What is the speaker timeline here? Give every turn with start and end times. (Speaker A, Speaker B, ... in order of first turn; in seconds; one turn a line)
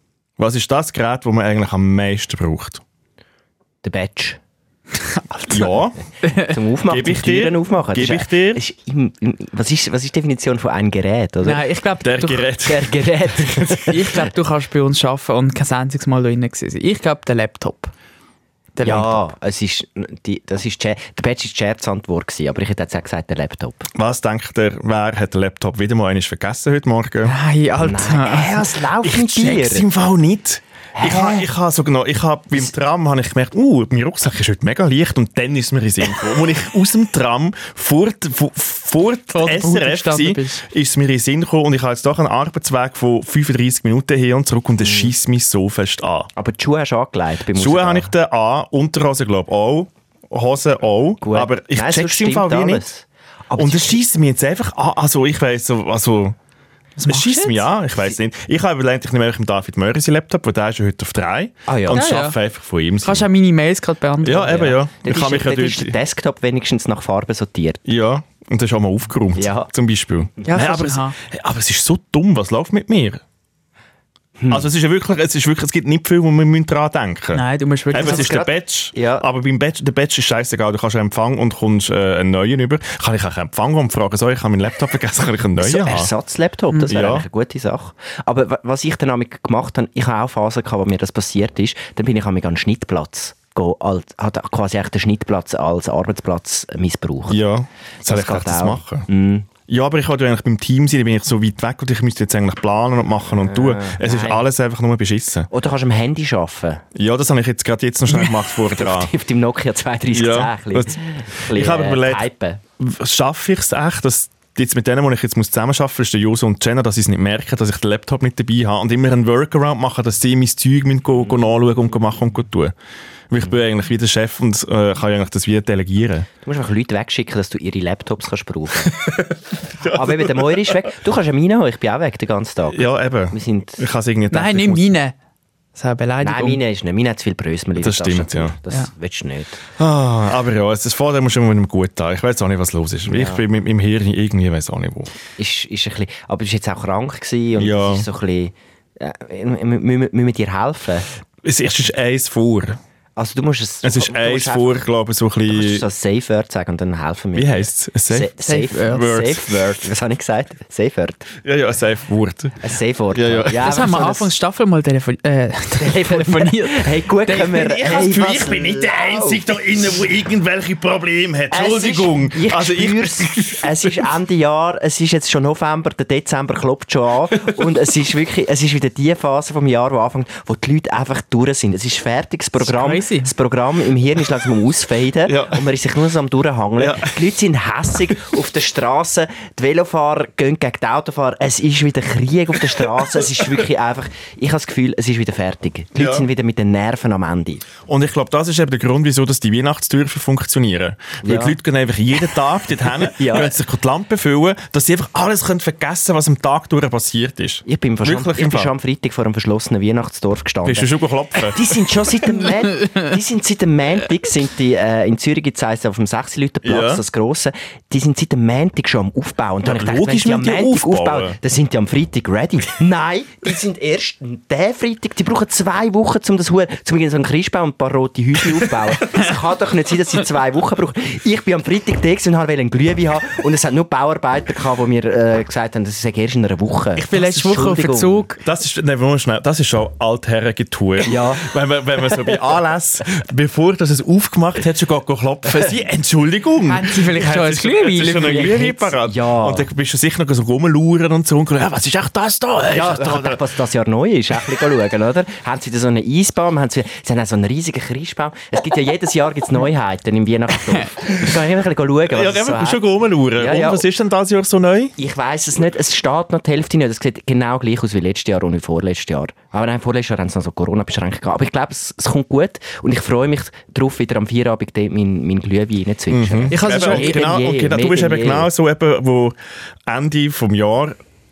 Speaker A: 0.4-2.8
Speaker B: 3.8-4.4
Speaker C: 5.0-6.6
Speaker A: 5.5-6.0
Speaker B: 6.4-11.6
Speaker A: 6.9-8.6
Speaker C: 11.4-12.5
Speaker A: 12.0-13.9
Speaker B: 12.7-14.2
Speaker C: 13.9-17.9
Speaker C: 18.8-19.2
Speaker B: 18.8-23.9
Speaker A: 23.9-27.4
Speaker C: 27.3-28.8
Speaker B: 27.8-29.9
Speaker A: 29.0-46.3
Speaker B: 31.0-31.4
Speaker C: 39.3-40.6
Speaker B: 44.8-45.1
Speaker B: 46.4-48.1
Speaker A: 47.5-52.9
Speaker B: 51.2-54.0
Speaker A: 53.6-56.4
Speaker C: 57.0-57.7
Speaker A: 57.1-63.3
Speaker B: 61.7-62.1
Speaker C: 61.9-62.4
Speaker C: 63.0-64.7
Speaker A: 64.2-66.0
Speaker B: 64.5-67.8
Speaker A: 67.9-73.2
Speaker B: 69.4-69.7
Speaker B: 70.4-70.7
Speaker C: 70.5-71.2
Speaker B: 74.4-74.7
Speaker A: 74.5-86.1
Speaker C: 77.3-78.4
Speaker B: 78.0-79.2
Speaker B: 85.6-97.4
Speaker A: 86.9-87.3
Speaker A: 97.3-99.1
Speaker B: 98.1-99.5
Speaker A: 99.7-105.5
Speaker B: 103.4-104.5
Speaker B: 105.5-106.8
Speaker A: 107.0-109.1
Speaker B: 108.1-112.6
Speaker A: 110.1-112.3
Speaker A: 112.8-122.7
Speaker A: 123.3-126.3
Speaker B: 126.4-129.1
Speaker A: 128.9-130.8
Speaker B: 129.8-133.8
Speaker A: 132.7-134.9
Speaker C: 134.3-135.1
Speaker C: 135.8-136.6
Speaker B: 136.2-139.6
Speaker A: 137.8-138.6
Speaker A: 139.8-145.1
Speaker B: 143.1-143.4
Speaker B: 145.4-151.1
Speaker A: 147.6-148.1
Speaker A: 151.4-152.8
Speaker B: 153.2-154.8
Speaker A: 153.8-155.8
Speaker B: 155.5-161.3
Speaker A: 157.4-158.3
Speaker C: 158.4-159.2
Speaker A: 158.8-159.8
Speaker A: 161.4-163.7
Speaker B: 162.6-164.3
Speaker C: 163.6-167.9
Speaker B: 165.8-169.4
Speaker A: 167.6-173.7
Speaker B: 171.5-197.6
Speaker C: 182.6-183.3
Speaker A: 185.3-185.7
Speaker A: 186.8-187.2
Speaker A: 196.0-196.3
Speaker A: 197.9-208.7
Speaker B: 201.2-201.6
Speaker B: 203.1-203.5
Speaker B: 207.7-238.2
Speaker A: 210.6-211.6
Speaker A: 216.6-217.0
Speaker A: 219.6-221.4
Speaker C: 237.0-238.4
Speaker A: 238.4-253.5
Speaker B: 241.1-241.5
Speaker B: 242.1-242.3
Speaker C: 246.7-248.9
Speaker B: 248.2-249.7
Speaker B: 252.7-263.9
Speaker A: 262.1-264.9
Speaker B: 265.0-278.5
Speaker A: 276.1-279.4
Speaker C: 276.5-277.2
Speaker A: 279.9-281.0